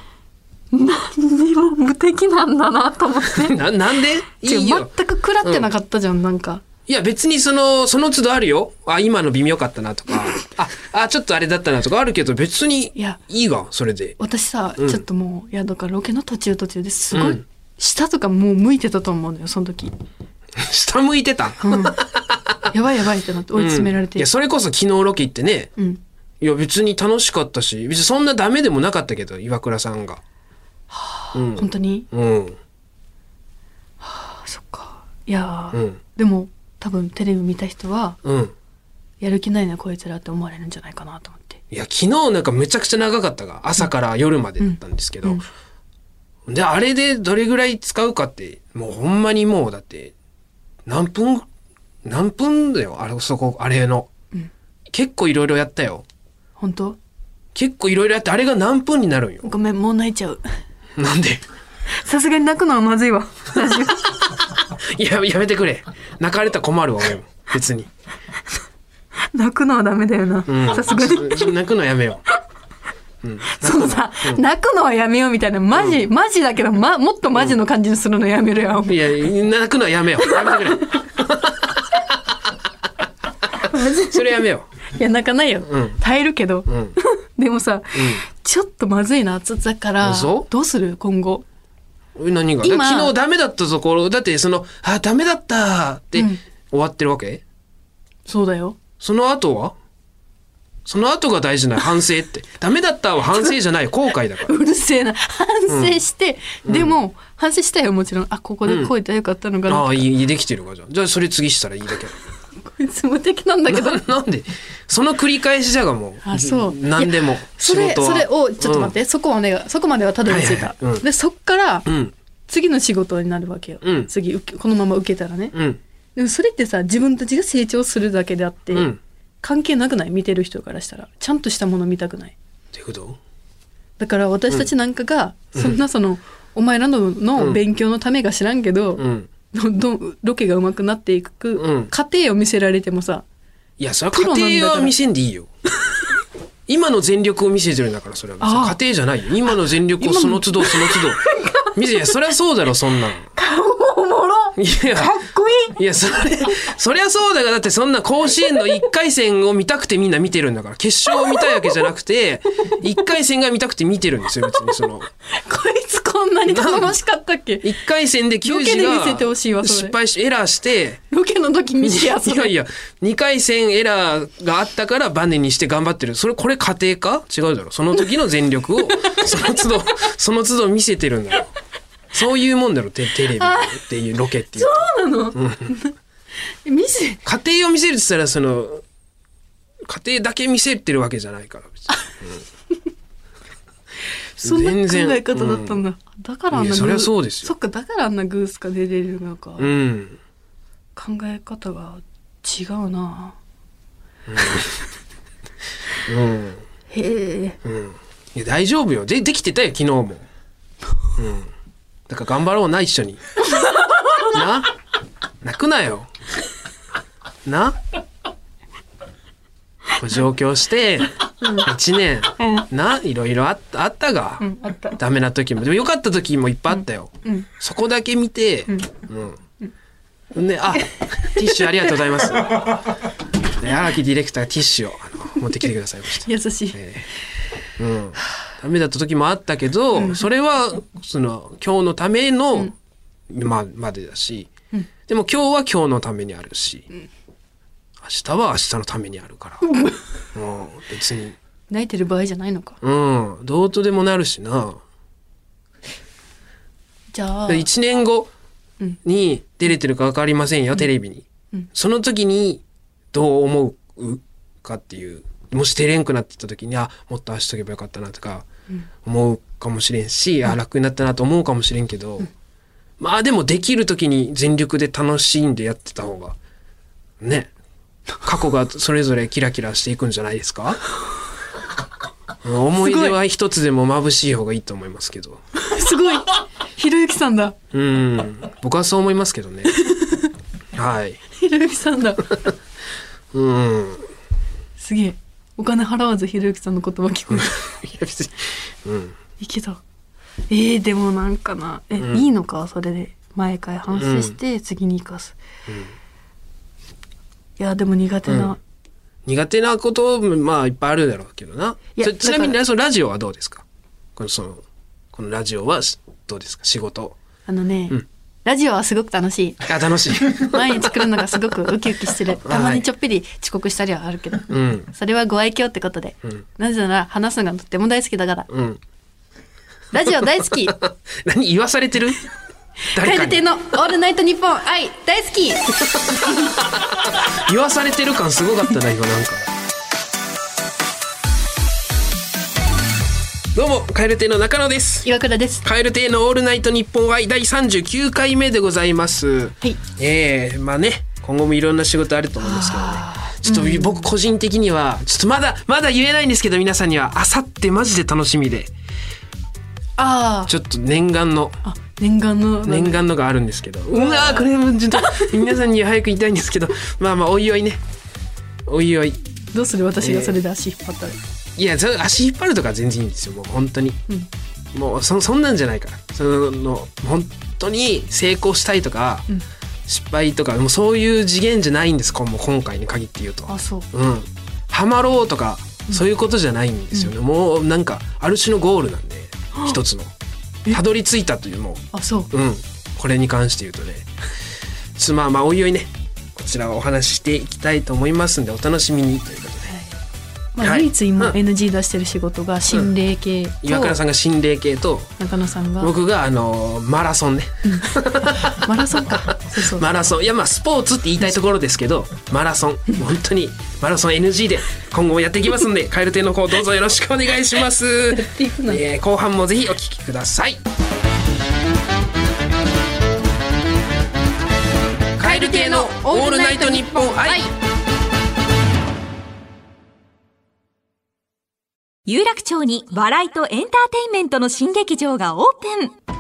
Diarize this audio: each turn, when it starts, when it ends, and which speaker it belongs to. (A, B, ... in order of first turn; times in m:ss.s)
0:00.7-0:03.6 A
0:03.3-0:04.9 B
0:04.3-0:06.6 A
0:05.4-0:05.7 B
0:06.9-0:14.2 B
0:14.2-0:19.9 A
0:17.1-0:17.4 B
0:20.6-0:22.5 B
0:21.6-0:22.0 A
0:22.7-0:24.3 A
0:23.6-0:25.7 B
0:26.4-0:30.2 B
0:30.9-0:32.1 A
0:31.3-0:32.6 B
0:34.0-0:38.2 A
0:35.7-0:36.0 B
0:38.2-0:38.5 B
0:39.2-0:41.6 A
0:41.7-0:45.4 B
0:44.6-0:45.4 A
0:46.5-0:50.1 B
0:50.9-0:51.5 B
0:52.0-0:54.1 B
0:54.9-0:56.0 B
0:56.6-0:57.0 A
0:57.6-0:59.5 B
0:59.4-1:00.4 A
1:01.0-1:01.4 B
1:01.9-1:04.3 A
1:04.4-1:07.9 B
1:09.3-1:11.5 A
1:10.5-1:12.2 B
1:13.2-1:14.4 B
1:13.5-1:19.3 A
1:15.7-1:16.0 B
1:18.9-1:22.1 B
1:20.3-1:20.7 A
1:23.6-1:31.5 A
1:24.0-1:24.7 B
1:25.7-1:26.0 B
1:26.7-1:27.0 B
1:28.0-1:28.2 B
1:30.0-1:30.5 B
1:32.2-1:37.4 B
1:32.6-1:33.1 A
1:36.2-1:36.4 A
1:38.3-1:38.8 A
1:39.0-1:39.8 B
1:40.9-1:44.5 B
1:44.4-1:49.9 A
1:45.7-1:46.0 B
1:46.6-1:47.0 B
1:48.6-1:48.9 B
1:49.7-1:52.2 B
1:52.6-1:54.0 A
1:53.7-1:58.9 B
1:56.2-2:01.9 A
2:00.3-2:01.0 B
2:01.9-2:02.1 B
2:02.5-2:05.6 A
2:03.8-2:04.1 B
2:05.5-2:05.8 B
2:06.2-2:08.9 A
2:08.7-2:09.0 B
2:09.4-2:12.4 A
2:12.7-2:13.2 B
2:14.0-2:23.2 A
2:19.0-2:19.3 B
2:21.6-2:21.9 B
2:23.8-2:25.5 B
2:24.1-2:24.9 A
2:26.7-2:33.3 B
2:28.4-2:28.8 A
2:30.0-2:32.2 A
2:33.4-2:35.8 A
2:34.6-2:35.2 B
2:35.8-2:45.1 B
2:41.2-2:41.8 A
2:45.3-2:47.7 A
2:46.5-2:47.0 B
2:47.6-2:51.0 B
2:48.4-2:50.0 A
2:51.1-2:52.5 A
2:51.8-3:01.5 B
3:02.1-3:04.8 B
3:03.4-3:03.8 A
3:04.6-3:05.9 A
3:05.4-3:05.7 B
3:06.6-3:07.2 A
3:07.2-3:08.8 B
3:09.9-3:12.4 B
3:14.4-3:19.7 A
3:14.4-3:15.8 B
3:16.5-3:17.5 B
3:19.6-3:20.2 B
3:21.0-3:23.4 A
3:24.3-3:24.7 B
3:26.1-3:26.6 B
3:26.9-3:27.6 A
3:27.6-3:30.2 B
3:31.2-3:31.5 B
3:32.1-3:33.2 B
3:34.2-3:34.7 B
3:35.4-3:36.1 B
3:37.4-3:37.8 B
3:40.0-3:49.4 B
3:41.4-3:41.7 A
3:42.4-3:42.7 A
3:44.4-3:45.0 A
3:46.7-3:47.5 A
3:50.3-3:52.9 B
3:50.8-3:51.6 A
3:53.5-3:57.0 B
3:56.2-3:56.8 A
3:57.8-4:02.7 B
3:59.9-4:00.2 A
4:03.3-4:04.5 B
4:05.1-4:06.9 B
4:08.0-4:09.6 B
4:10.3-4:11.4 B
4:11.7-4:12.8 A
4:12.8-4:14.8 B
4:17.1-4:17.7 A
4:17.5-4:18.3 B
4:19.0-4:28.5 B
4:29.0-4:32.3 B
4:33.0-4:36.4 B
4:37.2-4:37.5 B
4:38.2-4:40.8 B
4:42.4-4:45.4 B
4:42.8-4:43.2 A
4:45.6-4:47.6 A
4:47.7-4:49.8 B
4:49.7-4:50.3 A
4:50.8-4:51.2 B
4:51.4-4:52.5 A
4:53.3-4:54.1 B
4:54.8-4:57.8 A
4:57.3-4:59.2 B
4:59.4-4:59.8 A
5:00.5-5:05.4 A
5:02.0-5:02.2 B
5:03.9-5:04.4 B
5:05.7-5:05.9 B
5:07.6-5:08.6 A
5:08.3-5:08.5 B
5:09.3-5:13.6 B
5:12.0-5:12.6 A
5:14.2-5:17.2 B
5:17.5-5:19.7 A
5:19.6-5:20.9 B
5:20.2-5:28.5 A
5:22.4-5:22.9 B
5:24.5-5:24.9 B
5:28.5-5:28.8 B
5:29.9-5:30.8 A
5:30.7-5:32.3 B
5:32.9-5:36.3 A
5:32.9-5:33.4 B
5:36.4-5:39.5 B
5:43.5-5:45.1 B
5:45.0-5:45.6 A
5:45.6-5:58.7 B
5:52.4-5:54.1 A
6:00.0-6:00.5 A
6:00.5-6:01.6 B
6:01.6-6:03.0 A
6:02.6-6:07.8 B
6:03.9-6:05.4 A
6:08.7-6:09.2 B
6:09.5-6:11.2 A
6:10.0-6:10.4 B
6:11.6-6:14.0 B
6:14.7-6:19.3 B
6:19.9-6:30.1 B
6:23.5-6:23.9 A
6:30.7-6:34.1 B
6:31.9-6:32.3 A
6:35.0-6:39.7 B
6:39.7-6:39.9 A
6:40.6-6:44.0 A
6:40.6-6:41.4 B
6:43.6-6:45.1 B
6:45.2-6:45.9 A
6:45.8-7:00.6 B
6:47.6-6:49.9 A
6:58.1-6:58.8 A
7:05.2-7:07.5 B
7:05.2-7:07.5 A
7:12.1-7:16.0 C